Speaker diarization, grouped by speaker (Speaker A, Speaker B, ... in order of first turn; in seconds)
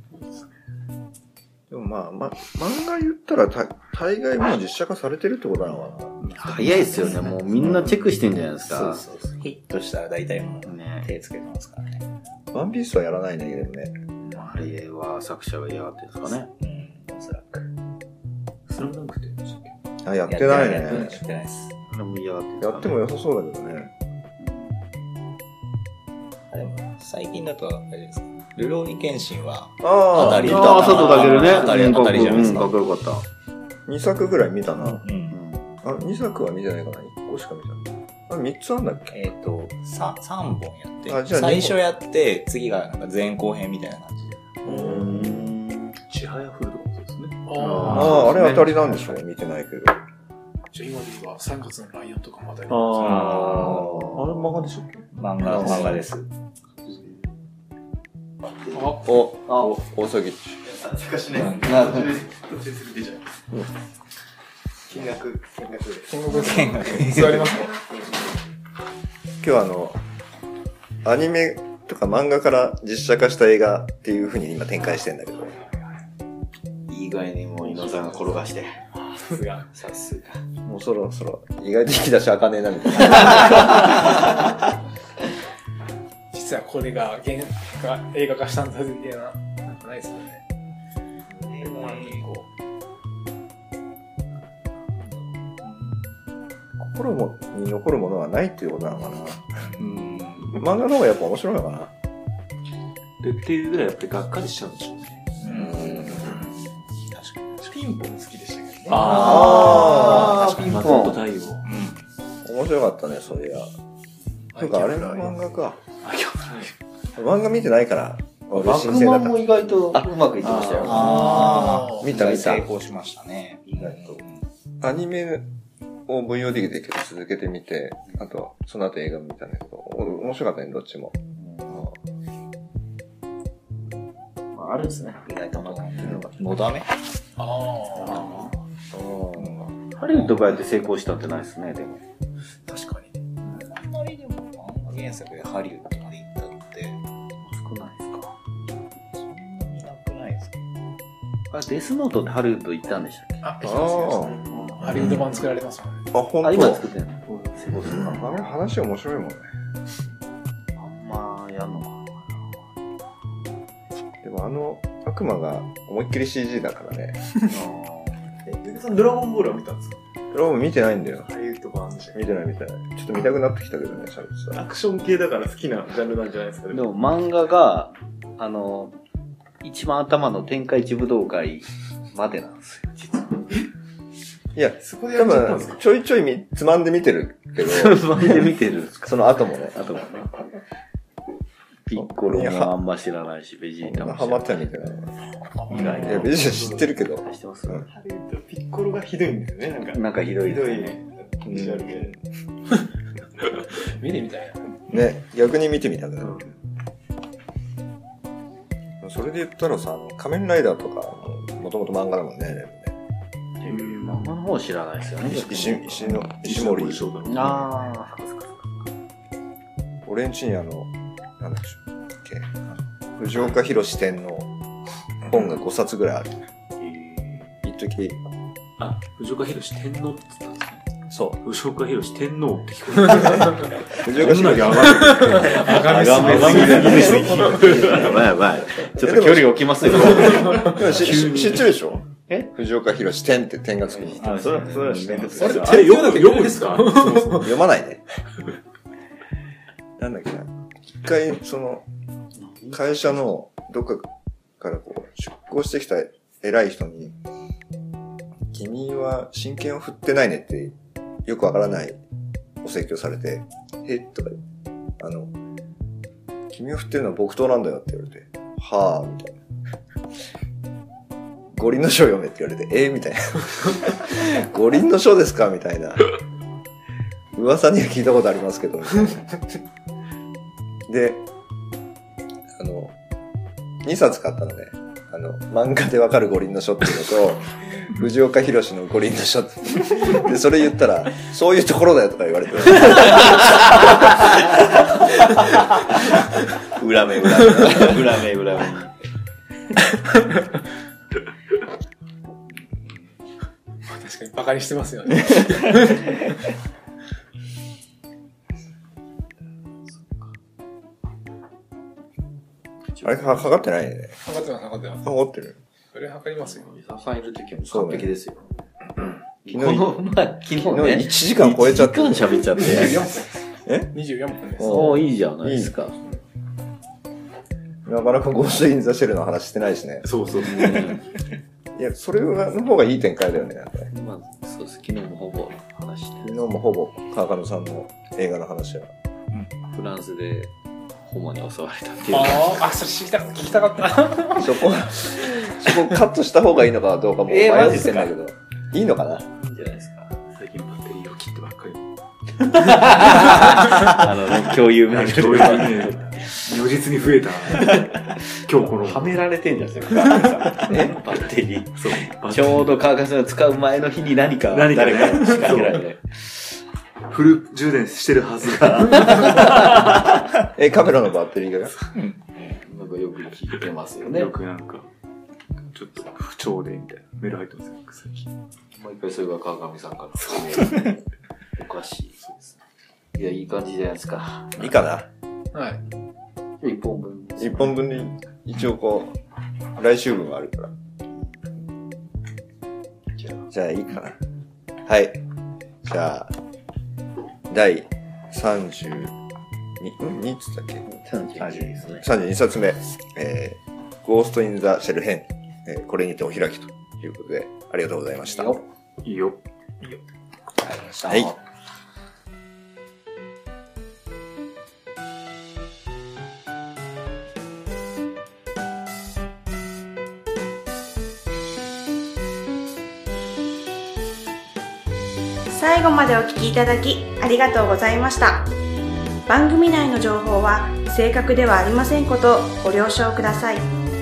Speaker A: 1.7-6.1, 7.6-7.9, 12.5-13.9, 20.0-21.2, 22.6-23.9, 29.8-31.5, 33.9-35.0, 35.8-39.2, 41.1-41.8, 44.6-45.5, 47.9-50.0, 53.4-54.4, 55.4-56.0, 59.0-60.6, 69.4-70.0, 71.0-75.6, 80.6-84.6, 96.8-99.7, 100.5-101.9, 105.5-106.4, 109.1-110.3, 112.4-113.7, 114.5-115.8, 117.2-120.1, 120.8-122.7, 124.8-125.5, 126.1-131.9, 138.9-139.7, 153.6-154.4, 156.1-156.8, 157.9-159.5, 164.2-167.2, 170.3-171.3, 172.1-174.6, 184.5-188.5, 189.0-189.8, 191.9-192.7, 193.8-195.1, 195.9-197.8, 201.4-202.0, 204.9-206.5, 209.0-212.9, 215.3-217.1, 220.0-224.5, 225.2-226.4, 227.6-228.2, 233.9-235.3, 239.0-244.7, 246.8-248.0, 250.0-250.5, 251.0-251.8, 252.7-257.1, 258.5-262.0, 262.6-264.4, 265.0-265.3, 266.5-269.4, 271.5-276.1, 277.3-279.6, 280.9-281.3, 282.6-282.9, 283.8-294.5, 313.0-314.1, 315.0-315.6, 317.7-318.1, 319.5-322.4, 323.6-323.9, 324.6-325.8, 327.8-330.1, 331.7-333.9, 336.2-338.9, 344.4-349.2, 370.4-371.7, 384.6-385.1, 387.4-389.1, 389.7-390.7, 393.5-394.2, 394.8-395.2, 395.8-396.3, 397.5-399.1, 399.8-400.8, 401.8-408.6, 411.0-411.3
Speaker B: 6.2-7.3, 18.7-19.7, 46.1-48.2, 52.7-56.0, 99.8-100.6, 103.2-105.9, 108.9-111.7, 116.0-116.7, 120.4-121.3, 157.3-157.7, 213.7-214.4, 215.9-218.0, 226.8-227.6, 228.8-230.8, 231.4-238.2, 240.1-242.0, 245.5-247.3, 330.0-331.0, 350.3-351.8, 352.5-353.7, 354.8-359.2, 361.7-362.8, 364.5-365.9, 367.1-370.1, 374.1-374.9, 375.7-378.3, 409.0-409.4
Speaker C: 6.3-9.1, 10.6-11.1, 14.2-16.5, 21.9-23.0, 24.4-24.9, 30.1-33.2, 35.3-35.8, 44.7-46.0, 47.5-49.1, 56.9-57.2, 58.6-59.7, 61.5-62.2, 76.9-80.4, 91.6-92.4, 109.0-111.2, 118.5-121.6, 123.7-124.2, 131.4-131.7, 134.5-136.3, 138.0-138.5, 140.0-142.0, 147.4-148.3, 151.5-153.5, 156.4-158.4, 160.7-162.6, 167.5-168.2, 176.7-179.0, 179.6-183.4, 187.6-190.3, 191.9-194.7, 197.2-197.8, 199.7-201.0, 213.6-216.1, 217.2-218.9, 235.4-241.4, 243.9-245.8, 252.4-252.8, 296.7-298.9, 309.9-310.3, 312.9-313.6, 316.4-318.5, 319.4-323.1, 324.6-325.9, 330.4-331.0, 333.9-336.5, 339.7-340.5, 341.0-342.7, 347.3-348.1, 349.4-350.1, 352.5-356.4, 357.6-357.9, 358.8-366.5, 368.9-369.4, 372.5-374.3, 378.7-381.0, 381.6-382.3, 383.1-384.7, 386.6-387.9, 393.1-393.4, 400.9-402.1
Speaker D: 8.7-12.0, 16.5-17.7, 20.3-21.7, 26.5-32.7, 34.8-35.4, 39.1-44.5, 53.0-53.9, 55.1-56.3, 61.4-61.8, 66.3-67.7, 91.5-92.3, 95.0-96.1, 99.6-100.6, 105.4-107.6, 109.0-110.5, 111.6-112.0, 120.8-124.4, 135.2-136.9, 143.4-147.0, 149.1-150.5, 195.7-196.2, 244.2-245.9, 371.9-372.4, 401.4-401.7, 410.6-411.3
Speaker E: 47.5-48.2, 50.7-53.3, 58.7-59.1, 66.1-67.8, 79.2-79.6, 86.3-90.4, 91.9-92.2, 121.3-122.0, 137.4-138.5, 142.7-143.1, 153.4-156.0, 203.8-204.6, 234.9-238.0, 245.3-247.5, 303.8-306.3, 314.2-315.1, 315.9-316.7, 322.5-324.9, 342.1-344.6, 385.5-385.8
Speaker F: 60.7-63.2, 64.9-66.3, 107.6-109.1, 168.4-170.0, 171.2-172.2, 174.5-177.3, 184.8-185.8, 195.7-196.9, 197.9-202.2
Speaker G: 425.5-428.5, 429.3-433.7